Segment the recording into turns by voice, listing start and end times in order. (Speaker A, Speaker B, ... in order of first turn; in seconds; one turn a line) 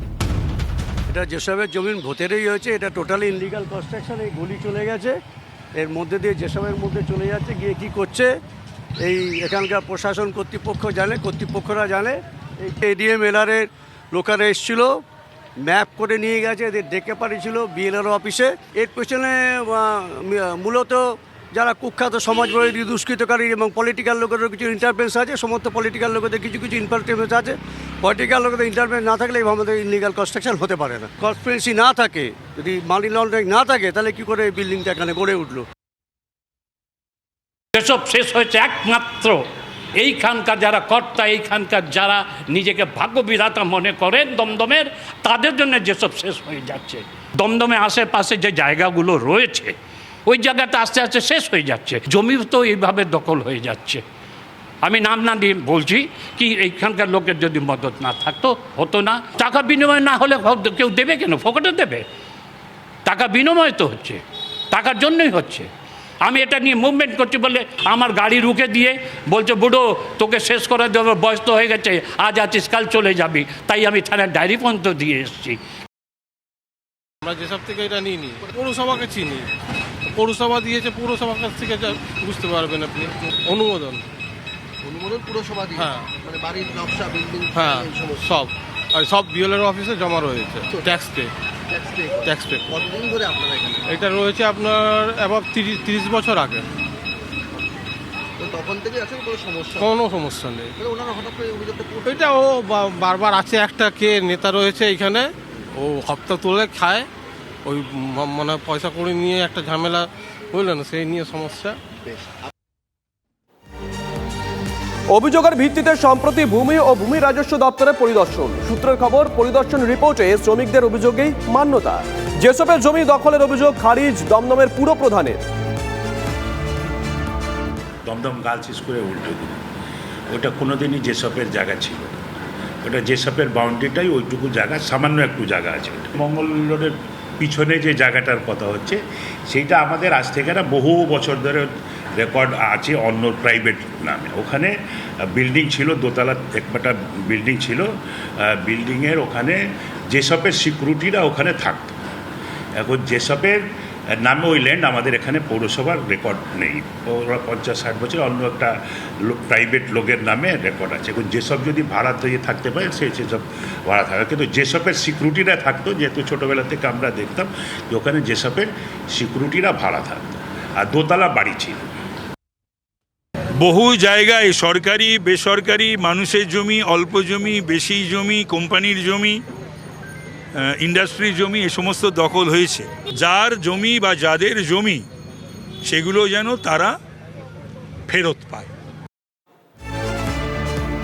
Speaker A: 1.1-5.2
Speaker A: 5.8-8.3
Speaker A: 9.0-15.0
Speaker A: 15.6-21.0
Speaker A: 21.5-35.6
Speaker B: 37.7-39.4
Speaker B: 40.0-49.7
Speaker B: 50.3-54.0
Speaker B: 54.8-62.0
Speaker B: 63.0-64.2
Speaker B: 64.7-65.7
Speaker B: 66.2-75.6
Speaker C: 77.2-79.5
Speaker C: 80.1-84.0
Speaker D: 84.8-88.2
Speaker C: 85.8-86.1
Speaker C: 87.5-91.3
Speaker D: 91.8-93.8
Speaker C: 92.2-92.7
Speaker C: 93.9-96.6
Speaker D: 98.4-99.9
Speaker C: 99.8-100.7
Speaker D: 100.8-102.2
Speaker C: 102.0-105.2
Speaker C: 105.8-107.0
Speaker C: 107.7-111.8
Speaker E: 115.1-125.4
Speaker F: 128.1-129.6
Speaker F: 130.3-132.1
Speaker F: 132.8-141.7
Speaker F: 142.2-144.7
Speaker F: 145.3-147.9
Speaker F: 148.4-149.6
Speaker F: 150.1-151.9
Speaker F: 152.8-153.6
Speaker F: 154.2-171.8
Speaker G: 173.6-179.4
Speaker G: 180.6-185.0
Speaker G: 185.8-186.9
Speaker G: 188.1-188.7